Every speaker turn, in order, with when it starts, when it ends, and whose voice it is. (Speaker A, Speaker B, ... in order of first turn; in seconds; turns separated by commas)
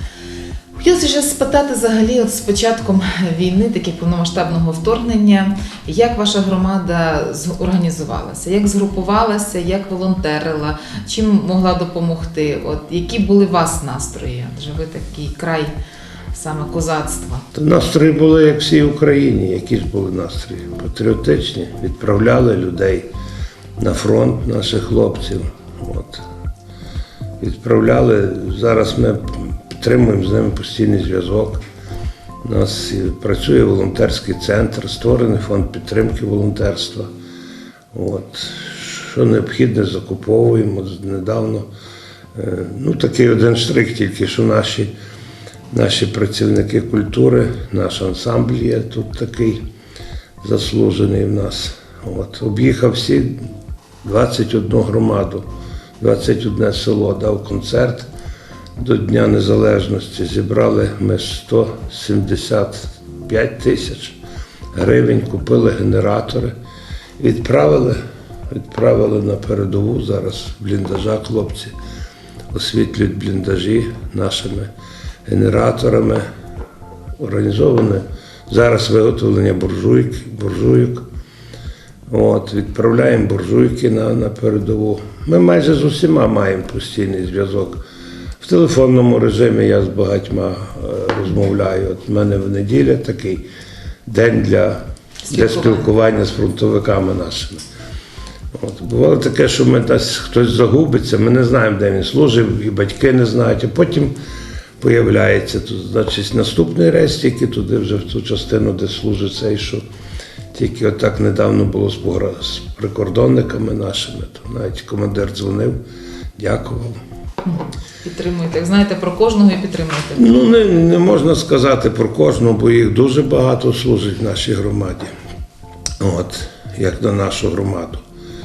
Speaker A: 0.8-15.7, Speaker A: 16.3-17.4, Speaker B: 17.5-23.1, Speaker B: 23.8-26.2, Speaker B: 27.4-31.6, Speaker B: 32.4-37.1, Speaker B: 37.9-41.7, Speaker B: 42.3-44.9, Speaker B: 45.7-49.6, Speaker B: 50.4-53.5, Speaker B: 54.0-55.5, Speaker B: 56.0-58.1, Speaker B: 58.8-64.2, Speaker B: 64.7-66.5, Speaker B: 67.2-71.7, Speaker B: 72.5-74.7, Speaker B: 75.2-76.3, Speaker B: 77.2-81.0, Speaker B: 82.1-87.8, Speaker B: 88.4-93.5, Speaker B: 94.0-97.6, Speaker A: 95.3-95.9, Speaker B: 98.5-104.2, Speaker B: 104.8-109.8, Speaker B: 110.5-115.8, Speaker B: 116.4-117.0, Speaker A: 117.4-120.5, Speaker B: 120.1-125.1, Speaker B: 126.0-128.0